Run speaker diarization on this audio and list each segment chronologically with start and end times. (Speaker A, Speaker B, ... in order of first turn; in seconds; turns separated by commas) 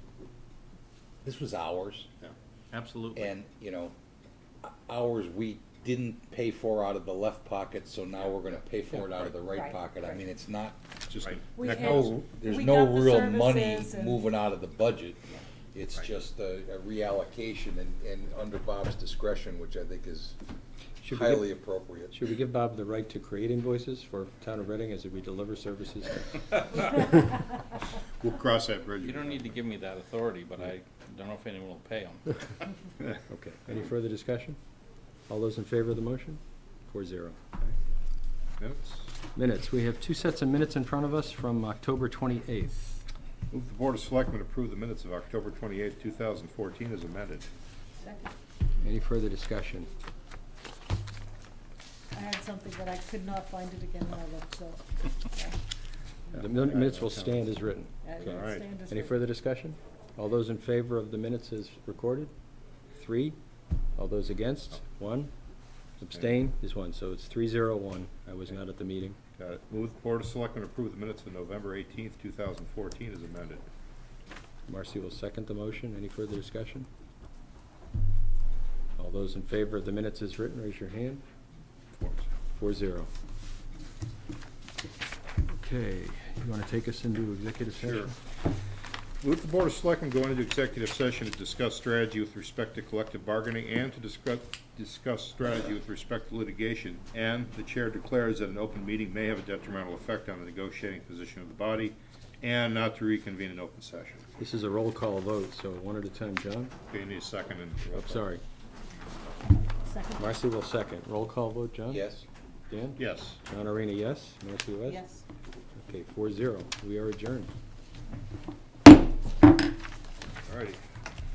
Speaker A: 1.2-2.1, Speaker B: 2.7-3.3, Speaker A: 3.1-3.9, Speaker A: 4.6-10.8, Speaker C: 9.5-9.8, Speaker D: 11.1-12.2, Speaker C: 11.5-14.2, Speaker A: 11.6-20.4, Speaker E: 21.0-21.5, Speaker A: 21.0-22.2, Speaker E: 22.1-27.1, Speaker D: 28.0-29.6, Speaker B: 29.0-32.2, Speaker E: 33.3-34.6, Speaker E: 35.3-37.4, Speaker D: 38.6-39.1, Speaker E: 39.3-43.0, Speaker D: 43.5-47.5, Speaker C: 48.0-48.3, Speaker E: 48.8-49.9, Speaker C: 52.1-55.6, Speaker E: 56.3-62.3, Speaker D: 56.3-57.5, Speaker C: 58.0-59.2, Speaker D: 58.2-58.7, Speaker E: 62.9-63.4, Speaker E: 64.0-65.3, Speaker E: 66.0-69.2, Speaker D: 69.4-73.7, Speaker E: 74.7-76.9, Speaker E: 79.0-81.2, Speaker D: 81.9-82.3, Speaker E: 82.5-83.1, Speaker E: 85.5-88.2, Speaker D: 87.8-88.1, Speaker D: 89.2-104.2, Speaker E: 104.4-106.7, Speaker D: 106.9-108.2, Speaker E: 107.9-108.4, Speaker C: 109.8-110.3, Speaker E: 110.2-112.1, Speaker A: 111.9-112.2, Speaker E: 112.7-115.0, Speaker D: 113.0-113.4, Speaker C: 114.9-115.2, Speaker E: 115.8-117.5, Speaker D: 120.4-120.8